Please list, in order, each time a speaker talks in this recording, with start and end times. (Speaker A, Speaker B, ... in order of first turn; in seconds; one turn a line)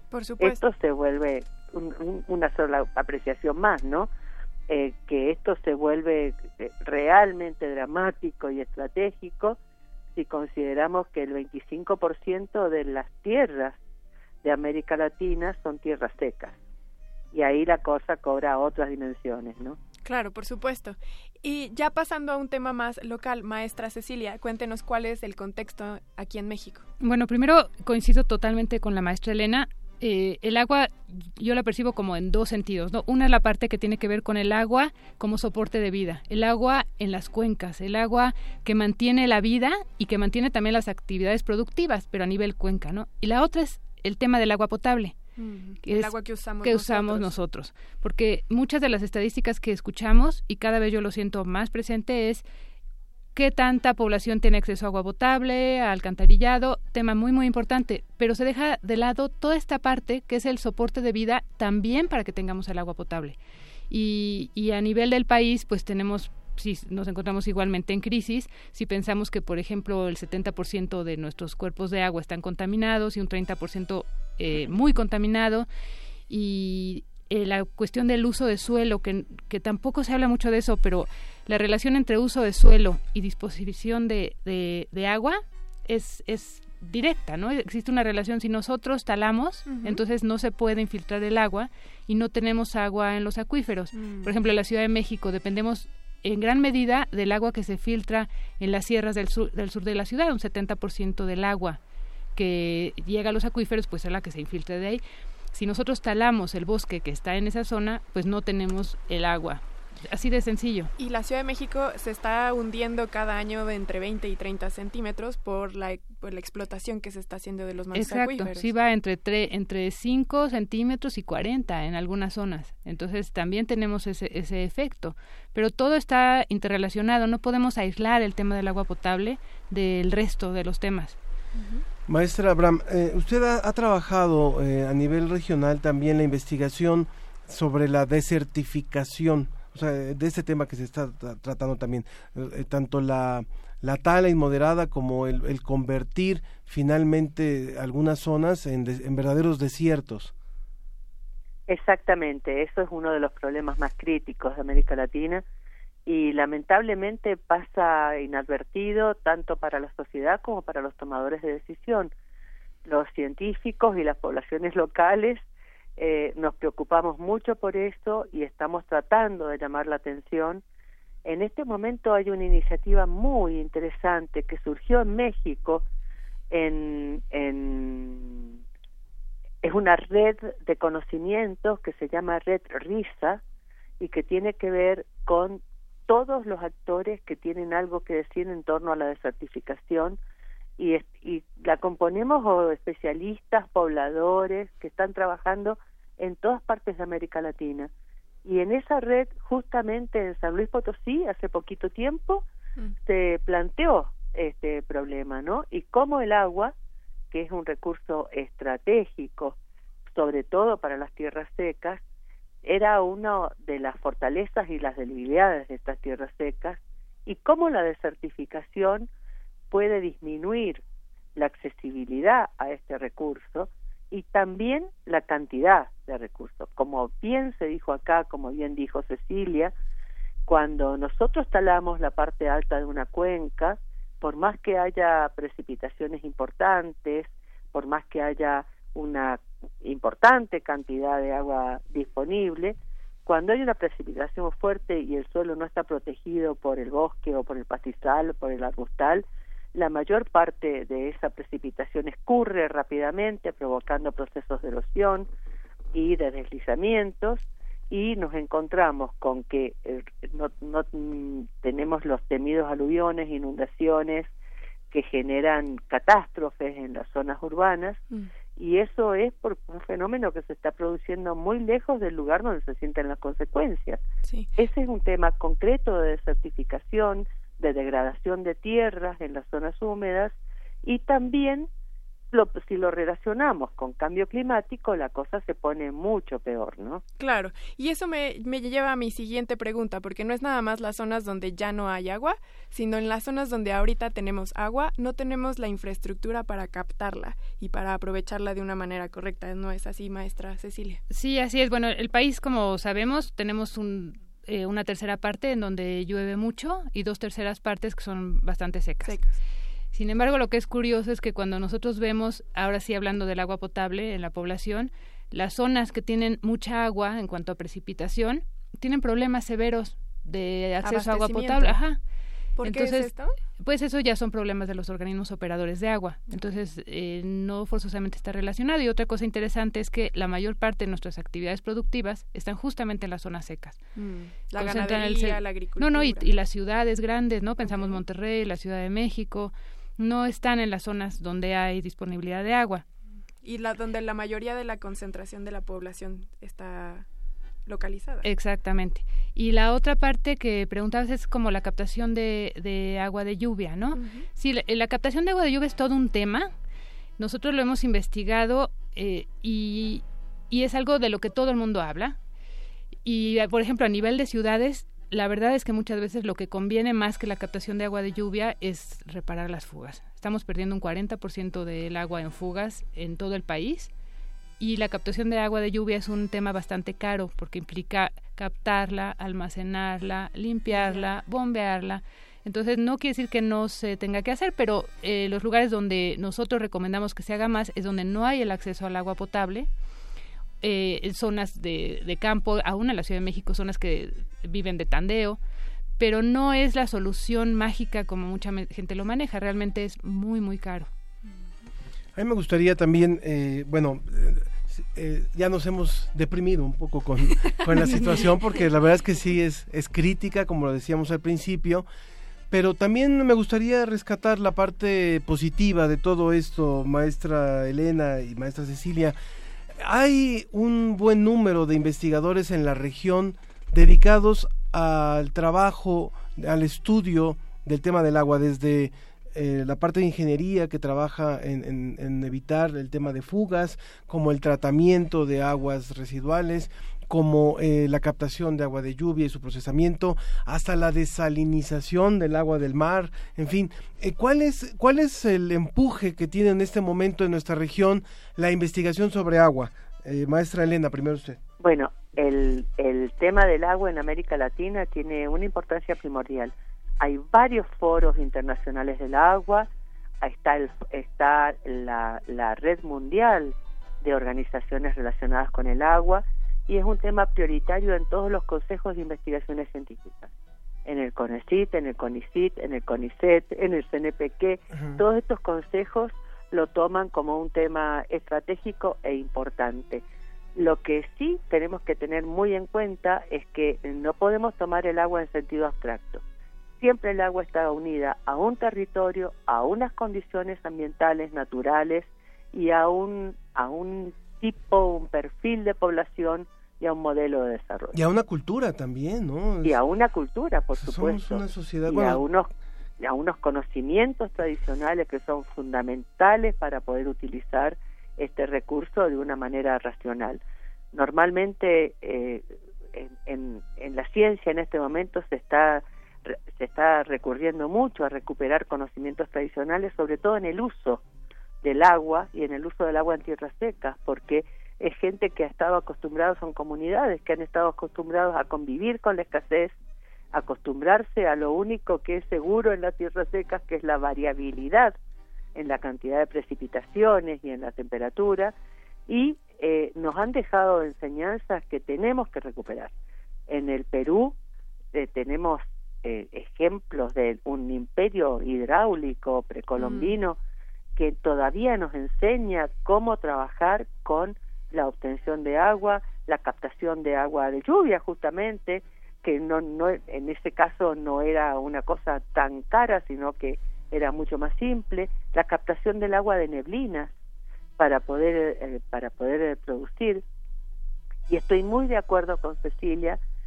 Speaker A: 0.1-0.6
Speaker B: 0.4-4.1
Speaker B: 4.7-9.6
Speaker B: 10.2-13.8
Speaker B: 14.4-16.5
Speaker B: 17.3-19.8
Speaker A: 20.0-26.9
Speaker C: 27.0-45.2
Speaker A: 45.4-47.3
Speaker C: 45.8-52.4
Speaker C: 53.4-63.4
Speaker C: 63.9-75.7
Speaker C: 76.3-101.8
Speaker A: 89.7-90.0
Speaker A: 93.9-94.4
Speaker C: 102.3-105.0
Speaker C: 105.5-110.9
Speaker A: 111.0-118.7
Speaker C: 117.9-131.2
Speaker A: 131.6-131.8
Speaker D: 132.1-150.3
Speaker B: 151.7-155.4
Speaker B: 156.1-162.1
Speaker B: 162.8-165.4
Speaker B: 166.0-170.6
Speaker B: 171.2-175.8
Speaker B: 176.5-178.5
Speaker B: 179.6-183.4
Speaker B: 184.0-190.2
Speaker B: 190.8-197.9
Speaker B: 198.4-202.4
Speaker B: 203.1-206.7
Speaker B: 207.3-209.5
Speaker B: 210.1-212.0
Speaker B: 212.6-219.1
Speaker B: 219.7-220.8
Speaker B: 221.3-229.7
Speaker B: 230.5-255.3
Speaker B: 255.9-264.3
Speaker B: 264.9-268.0
Speaker B: 268.6-274.0
Speaker B: 274.6-281.7
Speaker B: 282.3-287.0
Speaker A: 287.2-301.0
Speaker C: 301.1-309.2
Speaker A: 309.0-309.4
Speaker C: 309.9-322.0
Speaker A: 320.8-321.8
Speaker A: 322.6-323.3
Speaker C: 322.6-333.8
Speaker A: 333.9-336.3
Speaker C: 334.5-342.8
Speaker A: 337.6-338.0
Speaker A: 343.4-347.1
Speaker A: 347.6-348.3
Speaker C: 348.2-356.5
Speaker A: 353.9-354.2
Speaker C: 357.2-362.1
Speaker C: 363.0-373.9
Speaker C: 374.6-389.7
Speaker A: 380.7-381.1
Speaker C: 390.6-395.4
Speaker C: 396.0-400.9
Speaker D: 402.1-411.9
Speaker D: 412.5-419.1
Speaker D: 419.8-451.4
Speaker B: 451.6-459.7
Speaker B: 460.2-470.3
Speaker B: 470.9-480.0
Speaker D: 474.7-475.0
Speaker B: 480.6-486.2
Speaker B: 486.8-498.0
Speaker D: 497.9-499.8
Speaker B: 499.6-502.5
Speaker D: 500.8-502.2
Speaker B: 503.0-510.4
Speaker B: 510.9-521.0
Speaker B: 521.6-529.7
Speaker B: 530.3-534.9
Speaker B: 535.5-538.5
Speaker B: 539.1-542.9
Speaker B: 543.5-544.3
Speaker B: 544.9-550.4
Speaker A: 549.8-550.1
Speaker B: 551.0-567.1
Speaker B: 567.8-570.2
Speaker B: 571.3-573.2